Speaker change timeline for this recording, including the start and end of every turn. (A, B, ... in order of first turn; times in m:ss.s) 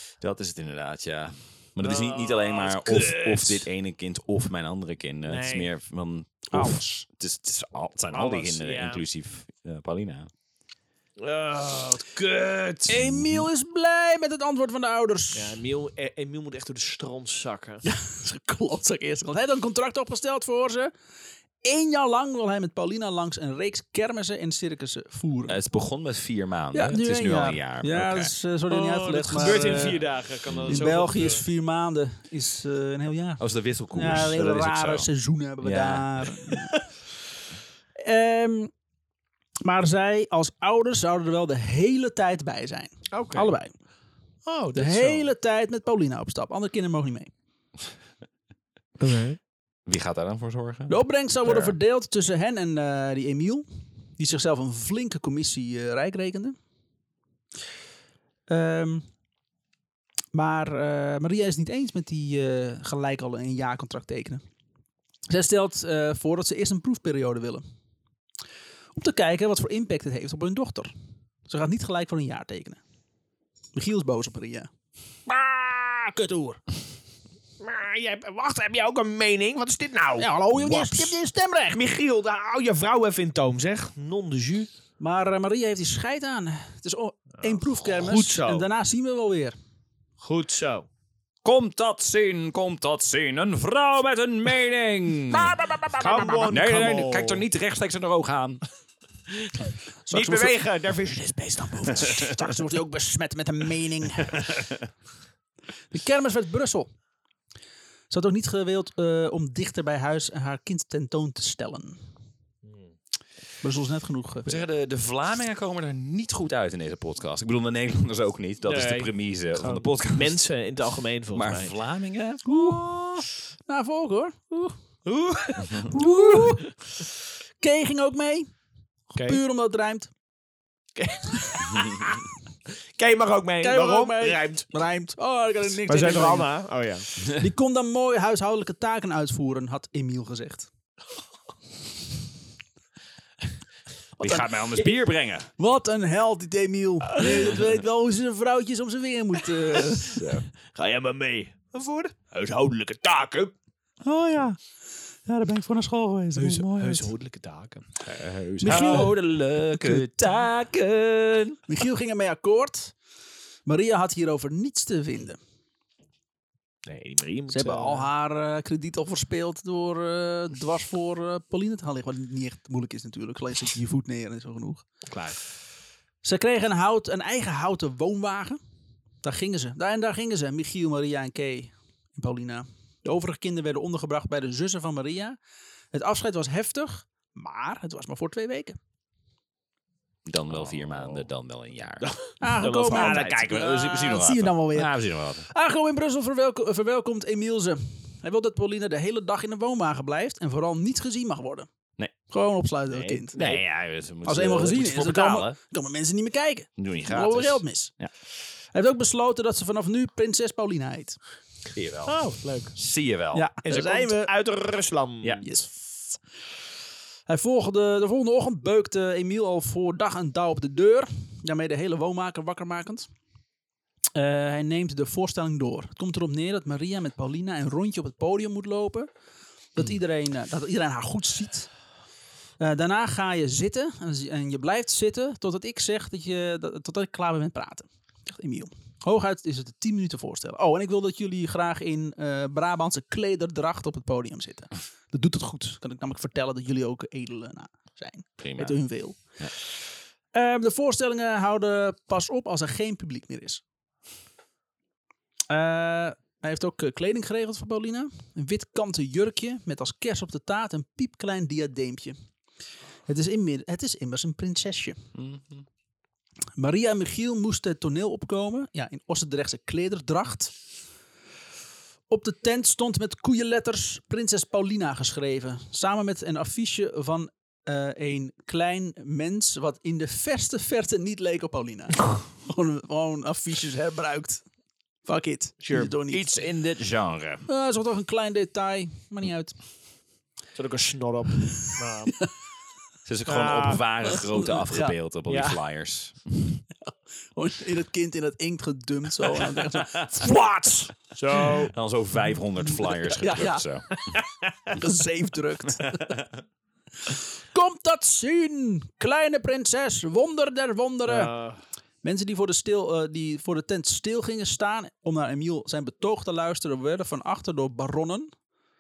0:00.2-0:10.3 A
0:01.8-0:03.7 B
0:05.3-0:05.7 B
0:06.5-0:07.0 C
0:08.1-0:09.0 B
0:11.2-0:13.0 B
0:12.9-0:15.6 C
0:13.0-0:13.5 A
0:15.3-0:17.8 B
0:17.8-0:20.9 C
0:21.6-0:25.6 C
0:25.5-0:28.3 A
0:26.7-0:30.0 C
0:28.7-0:31.4 B
0:30.4-0:30.8 A
0:30.7-0:33.4 C
0:33.4-0:35.1 A
0:33.9-0:36.8 C
0:35.6-0:36.3 A
0:38.0-0:38.7 C
0:39.6-0:43.7 C
0:43.1-0:43.5 B
0:44.4-0:45.3 B
0:44.7-0:47.3 C
0:49.0-0:49.4 B
0:49.9-0:51.7 A
0:50.9-0:53.7 C
0:54.2-0:56.6 C
0:58.5-0:59.0 C
1:00.3-1:04.4 C
1:05.3-1:07.6 C
1:09.0-1:10.9 C
1:11.5-1:12.8 C
1:13.7-1:14.7 C
1:15.3-1:16.6 C
1:17.6-1:21.2 B
1:20.2-1:21.8 C
1:21.7-1:24.7 B
1:25.0-1:29.6 C
1:27.4-1:28.7 B
1:30.2-1:30.9 B
1:31.4-1:35.6 A
1:35.6-1:36.6 C
1:36.0-1:37.4 B
1:36.4-1:38.6 A
1:39.3-1:42.6 B
1:40.0-1:40.6 C
1:41.8-1:44.5 C
1:44.3-1:44.8 A
1:45.9-1:46.9 C
1:48.1-1:52.0 C
1:52.6-1:52.9 B
1:53.6-1:54.6 C
1:54.4-2:00.4 A
1:58.6-2:01.7 B
2:01.3-2:03.3 A
2:02.4-2:02.9 C
2:03.7-2:04.8 C
2:05.0-2:06.6 B
2:05.6-2:05.9 A
2:05.8-2:06.7 C
2:07.6-2:08.5 C
2:09.1-2:09.4 B
2:09.2-2:10.1 C
2:11.0-2:12.2 B
2:13.0-2:14.7 B
2:13.6-2:16.5 C
2:15.9-2:17.1 B
2:17.3-2:20.7 C
2:24.2-2:24.5 C
2:24.2-2:25.5 A
2:25.6-2:30.2 C
2:29.7-2:33.5 B
2:30.1-2:30.4 A
2:34.0-2:34.6 C
2:35.3-2:37.1 C
2:36.4-2:38.0 B
2:38.0-2:41.6 A
2:38.6-2:39.1 C
2:38.7-2:39.1 B
2:39.7-2:40.1 C
2:41.7-2:43.0 C
2:43.7-2:45.4 C
2:46.9-2:48.1 B
2:47.5-2:54.8 C
2:55.1-2:55.4 B
2:56.2-2:58.6 C
2:59.2-3:05.4 C
3:05.9-3:08.8 C
3:10.3-3:12.1 A
3:12.0-3:13.7 B
3:12.4-3:21.7 C
3:12.9-3:15.4 A
3:22.3-3:23.4 C
3:22.9-3:23.6 B
3:23.3-3:25.6 A
3:24.2-3:27.9 C
3:26.8-3:28.1 A
3:28.7-3:31.2 C
3:31.7-3:32.2 A
3:32.0-3:32.7 B
3:32.7-3:33.4 A
3:33.3-3:34.3 C
3:33.6-3:35.6 B
3:35.4-3:36.2 C
3:37.3-3:43.1 C
3:44.1-3:49.1 C
3:49.7-3:51.7 C
3:52.6-4:09.2 C
4:08.4-4:08.8 A
4:10.3-4:13.6 C
4:15.5-4:22.2 C
4:23.1-4:25.1 C
4:25.1-4:25.6 A
4:26.6-4:30.5 C
4:32.1-4:44.4 C
4:45.0-4:46.4 C
4:45.6-4:45.9 B
4:46.1-4:47.4 A
4:47.5-4:49.6 C
4:50.6-4:52.2 B
4:51.4-4:52.3 C
4:53.0-4:56.6 A
4:53.3-4:54.3 B
4:54.3-4:55.0 C
4:55.3-4:55.6 B
4:56.9-5:01.6 C
4:59.7-5:00.1 A
5:01.1-5:01.7 B
5:01.5-5:04.0 A
5:02.8-5:03.7 C
5:04.0-5:04.5 B
5:04.7-5:06.2 C
5:05.8-5:06.3 A
5:07.1-5:11.3 C
5:11.0-5:11.6 B
5:12.0-5:18.3 C